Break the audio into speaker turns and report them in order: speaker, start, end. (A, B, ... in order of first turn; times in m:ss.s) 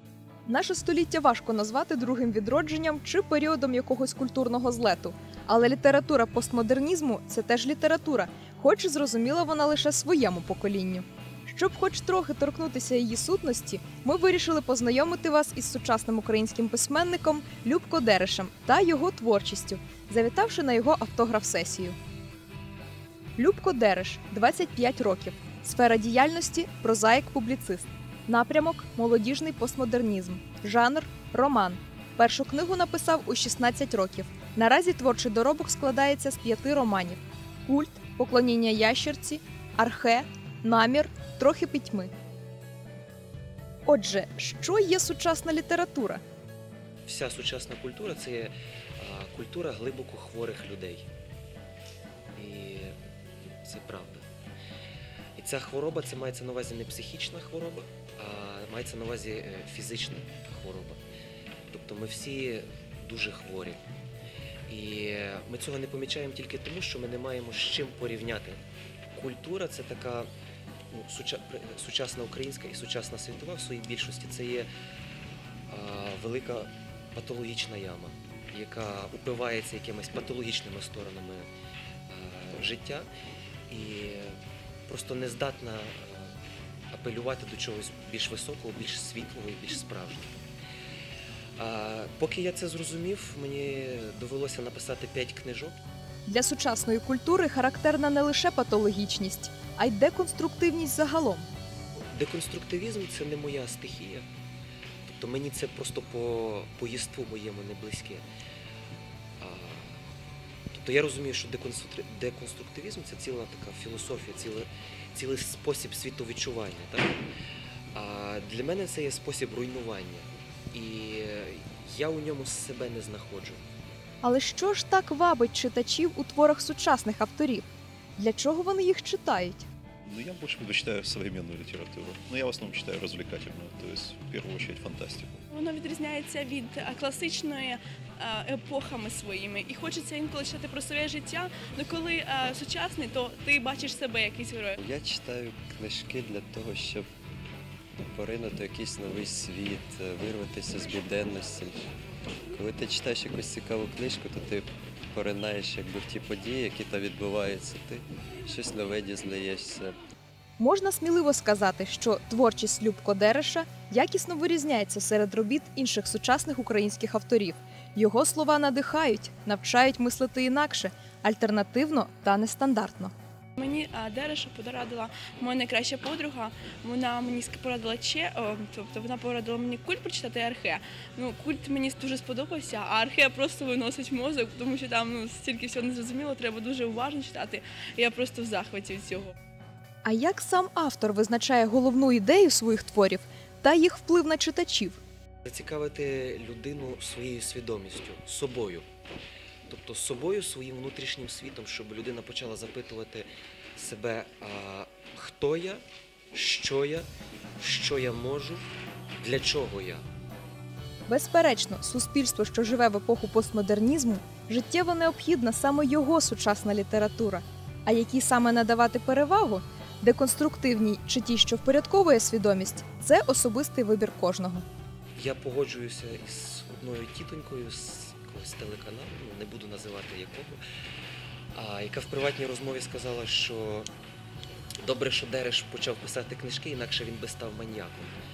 0:00.5-0:22.0 A
0:23.4-0:42.1 A
0:43.8-0:46.2 A
0:47.1-0:51.1 B
0:52.4-0:53.0 B
0:53.6-0:54.2 B
0:55.4-1:01.0 B
1:01.7-1:03.8 B
1:04.7-1:08.6 B
1:09.1-1:10.3 B
1:10.9-1:14.7 B
1:15.7-1:21.5 B
1:22.1-1:23.1 B
1:23.7-1:24.4 B
1:24.9-1:26.3 B
1:26.9-1:30.4 B
1:31.6-1:35.8 B
1:36.3-1:41.4 A
1:42.1-1:44.2 B
1:45.1-1:48.2 B
1:49.4-1:50.0 B
1:50.7-1:57.2 B
1:57.9-2:03.6 B
2:04.2-2:07.6 A
2:08.2-2:09.6 A
2:10.0-2:15.4 C
2:15.5-2:24.8 D
2:24.8-2:27.1 E
2:28.1-2:31.9 E
2:32.5-2:40.0 E
2:40.6-2:53.1 A
2:53.6-3:09.3 D
3:10.0-3:15.0 A
3:15.4-3:18.8 B
3:19.7-3:27.1 B
3:27.6-3:28.6 B
3:29.2-3:30.0 B
3:31.1-3:44.6 A
3:45.2-3:50.6 B
3:51.5-3:53.9 B
3:54.8-3:58.2 B